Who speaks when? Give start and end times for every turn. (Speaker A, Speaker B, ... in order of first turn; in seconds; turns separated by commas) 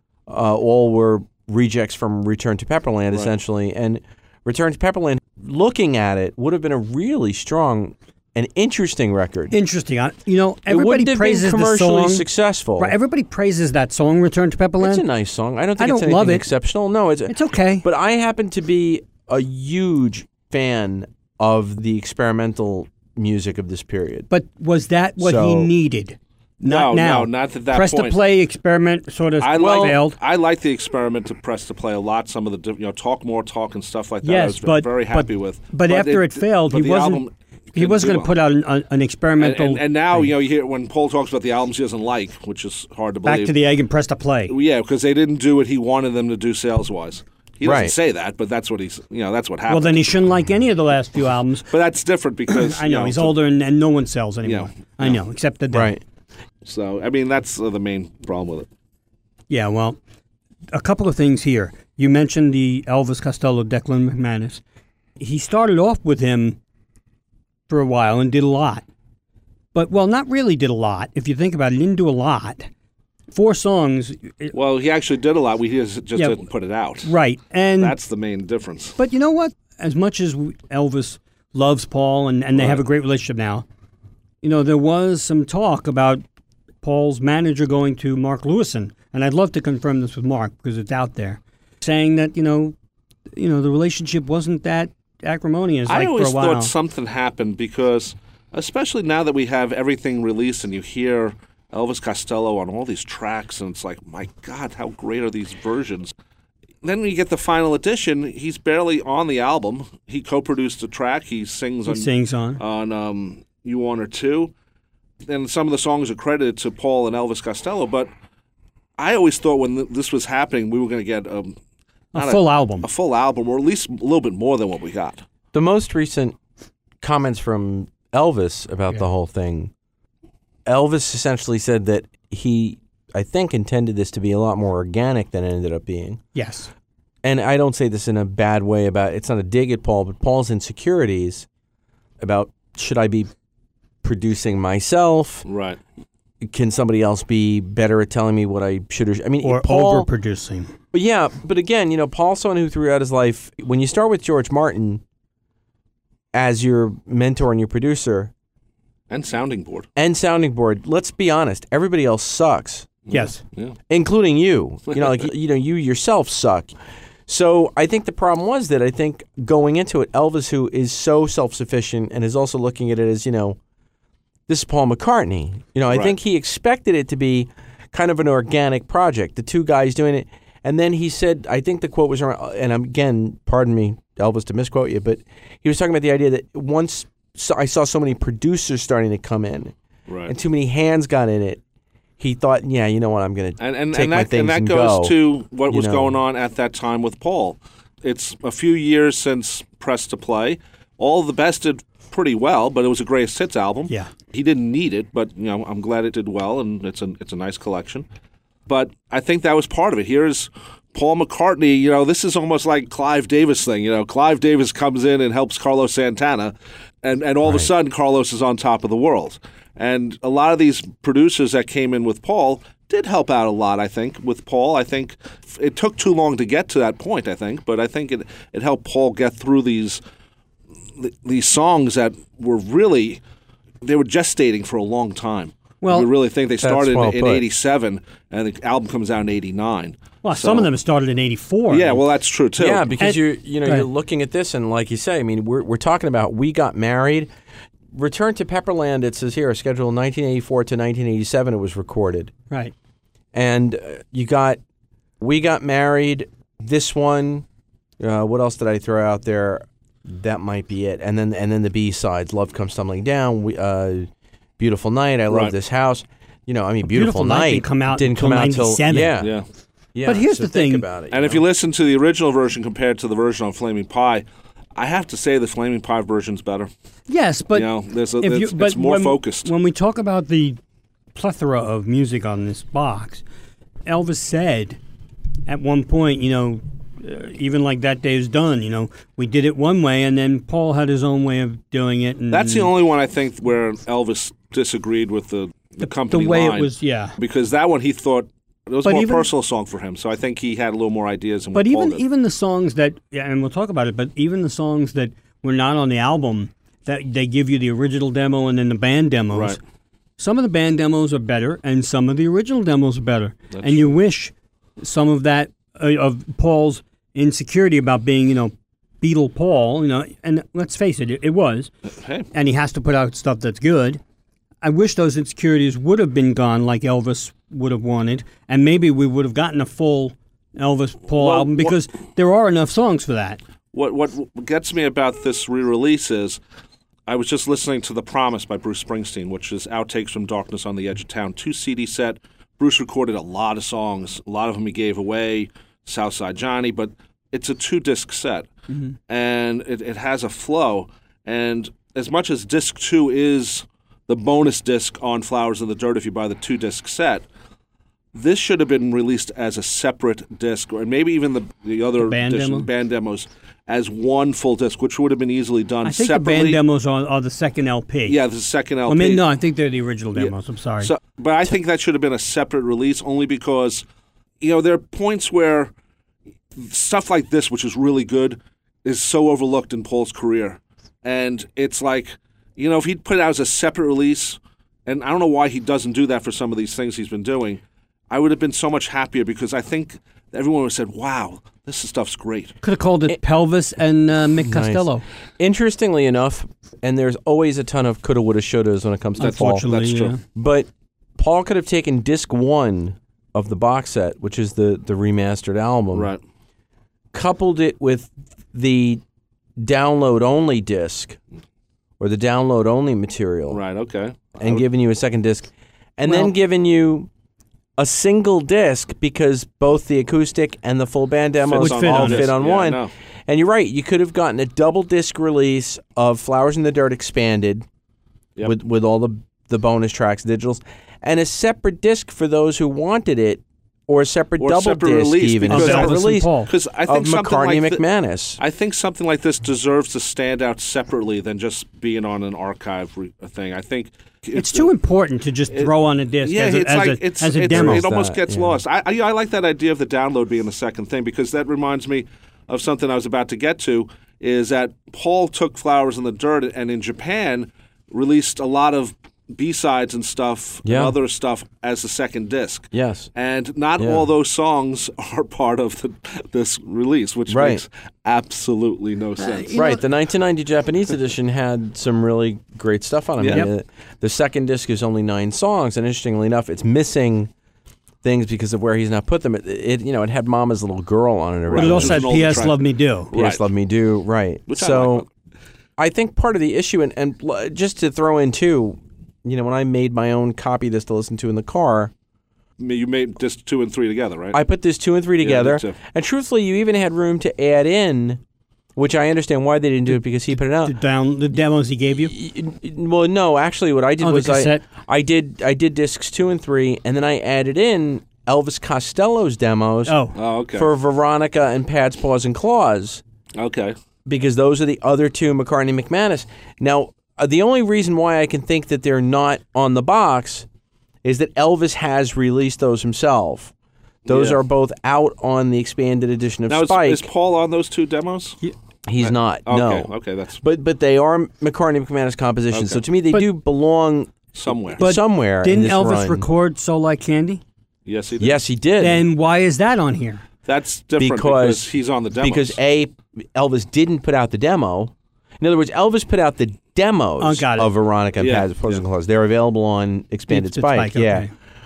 Speaker A: 0.3-9.5, Speaker B: 9.5-12.2, Speaker A: 10.7-12.9, Speaker B: 12.8-15.0, Speaker A: 14.8-24.3, Speaker B: 15.8-16.5, Speaker B: 17.3-17.8, Speaker B: 24.3-30.2, Speaker A: 25.2-25.7, Speaker C: 26.6-28.2, Speaker C: 29.4-38.3, Speaker A: 29.6-30.0, Speaker B: 34.2-37.2, Speaker B: 37.7-40.3, Speaker C: 39.4-43.5, Speaker B: 43.2-44.5, Speaker C: 44.5-50.0, Speaker A: 47.6-47.9, Speaker B: 49.7-51.7, Speaker C: 51.7-53.3, Speaker B: 52.5-55.9, Speaker C: 54.4-55.2, Speaker A: 55.7-56.0, Speaker C: 56.6-58.7, Speaker B: 59.5-60.0, Speaker B: 60.7-64.6, Speaker B: 65.2-66.6, Speaker B: 67.7-68.8, Speaker B: 69.7-72.7, Speaker B: 73.3-74.5, Speaker C: 74.5-77.1, Speaker B: 77.0-78.0, Speaker C: 77.8-79.0, Speaker B: 79.0-83.6, Speaker C: 82.5-82.8, Speaker B: 84.4-86.2, Speaker B: 86.8-92.7, Speaker B: 93.3-96.7, Speaker C: 95.9-106.1, Speaker C: 106.8-114.5, Speaker B: 111.9-112.6, Speaker C: 115.2-118.1, Speaker C: 119.0-121.5, Speaker B: 122.1-122.9, Speaker C: 122.2-125.2, Speaker A: 125.5-126.3, Speaker A: 127.0-129.7, Speaker A: 130.7-136.2, Speaker B: 136.3-136.7, Speaker A: 137.2-141.5, Speaker A: 142.2-143.3, Speaker A: 144.0-145.4, Speaker C: 145.4-145.8, Speaker A: 146.4-150.1, Speaker B: 149.4-150.7, Speaker A: 150.9-155.0, Speaker A: 156.3-158.3, Speaker C: 159.1-159.9, Speaker A: 159.9-163.1, Speaker C: 163.1-163.8, Speaker B: 163.1-163.4, Speaker A: 163.9-166.7, Speaker A: 167.3-173.6, Speaker A: 174.5-189.7, Speaker C: 190.1-190.3, Speaker A: 190.3-191.6, Speaker A: 192.2-195.1, Speaker C: 193.6-208.0, Speaker A: 195.7-196.2, Speaker C: 208.7-230.0, Speaker A: 217.4-217.7, Speaker C: 231.0-233.2, Speaker C: 233.8-240.7, Speaker B: 235.8-236.1, Speaker A: 236.6-237.4, Speaker B: 240.2-242.0, Speaker C: 241.7-242.9, Speaker A: 242.6-247.3, Speaker B: 243.0-243.9, Speaker A: 247.9-252.3, Speaker A: 253.3-254.6, Speaker A: 255.2-257.4, Speaker A: 258.0-269.4, Speaker B: 266.8-269.1, Speaker C: 269.2-269.4, Speaker A: 269.9-271.4, Speaker B: 270.1-270.9, Speaker C: 271.1-274.2, Speaker C: 274.8-276.7, Speaker B: 277.1-280.6, Speaker C: 277.5-279.5, Speaker B: 281.1-283.2, Speaker B: 283.9-284.8, Speaker B: 285.5-292.7, Speaker C: 292.3-302.0, Speaker B: 295.8-297.1, Speaker B: 298.8-299.3, Speaker B: 301.5-309.6, Speaker C: 309.3-309.6, Speaker B: 310.2-321.7, Speaker C: 313.5-313.9, Speaker C: 322.0-322.3, Speaker B: 322.3-324.0, Speaker B: 324.6-333.4, Speaker C: 331.2-331.8, Speaker C: 333.7-336.4, Speaker C: 337.1-348.5, Speaker B: 348.7-348.9, Speaker C: 349.1-357.2, Speaker C: 358.1-366.6, Speaker B: 362.0-362.7, Speaker B: 365.8-368.2, Speaker C: 368.1-369.2, Speaker B: 368.9-370.9, Speaker C: 370.1-373.8, Speaker C: 374.4-375.7, Speaker C: 376.6-392.5, Speaker B: 392.6-395.0, Speaker A: 394.4-399.6, Speaker B: 399.2-400.2, Speaker C: 399.2-400.2, Speaker A: 400.3-406.1, Speaker C: 405.9-406.2, Speaker A: 407.1-409.0, Speaker A: 409.6-411.2, Speaker A: 412.0-413.6, Speaker C: 413.5-414.6, Speaker A: 414.4-417.1, Speaker B: 416.1-416.3, Speaker A: 417.8-427.6, Speaker C: 421.4-422.9, Speaker B: 421.6-422.3, Speaker A: 428.4-436.3, Speaker C: 434.4-437.8, Speaker B: 435.5-436.5, Speaker A: 436.9-438.4, Speaker C: 438.4-444.7, Speaker B: 444.3-447.8, Speaker C: 446.2-469.5, Speaker A: 447.5-448.6, Speaker A: 460.6-460.9, Speaker A: 462.7-463.1, Speaker A: 463.8-464.1, Speaker A: 467.3-467.6, Speaker B: 469.2-469.8, Speaker A: 469.5-477.3, Speaker C: 473.2-473.5, Speaker A: 478.0-482.1, Speaker C: 481.5-482.6, Speaker B: 481.5-483.1, Speaker C: 483.1-483.4, Speaker A: 483.1-485.0, Speaker C: 484.5-485.1, Speaker A: 485.8-491.9, Speaker C: 492.6-494.4, Speaker A: 494.3-498.2, Speaker C: 495.2-495.8, Speaker A: 498.8-500.7, Speaker B: 500.6-502.1, Speaker A: 502.0-510.0, Speaker B: 504.0-504.6, Speaker B: 509.9-510.1, Speaker C: 510.1-510.7, Speaker A: 510.5-513.0, Speaker C: 513.4-513.7, Speaker A: 514.0-520.5, Speaker A: 521.0-523.5, Speaker C: 524.0-524.4, Speaker A: 524.1-527.1, Speaker C: 526.5-528.4, Speaker A: 528.9-534.2, Speaker C: 529.0-530.4, Speaker C: 532.5-532.8, Speaker C: 534.3-534.8, Speaker A: 534.7-536.3, Speaker B: 534.8-537.4, Speaker C: 537.9-538.4, Speaker A: 538.2-539.0, Speaker B: 538.8-540.2, Speaker C: 540.5-542.6, Speaker A: 541.0-551.3, Speaker B: 547.2-547.7, Speaker C: 548.2-548.8, Speaker B: 550.3-551.3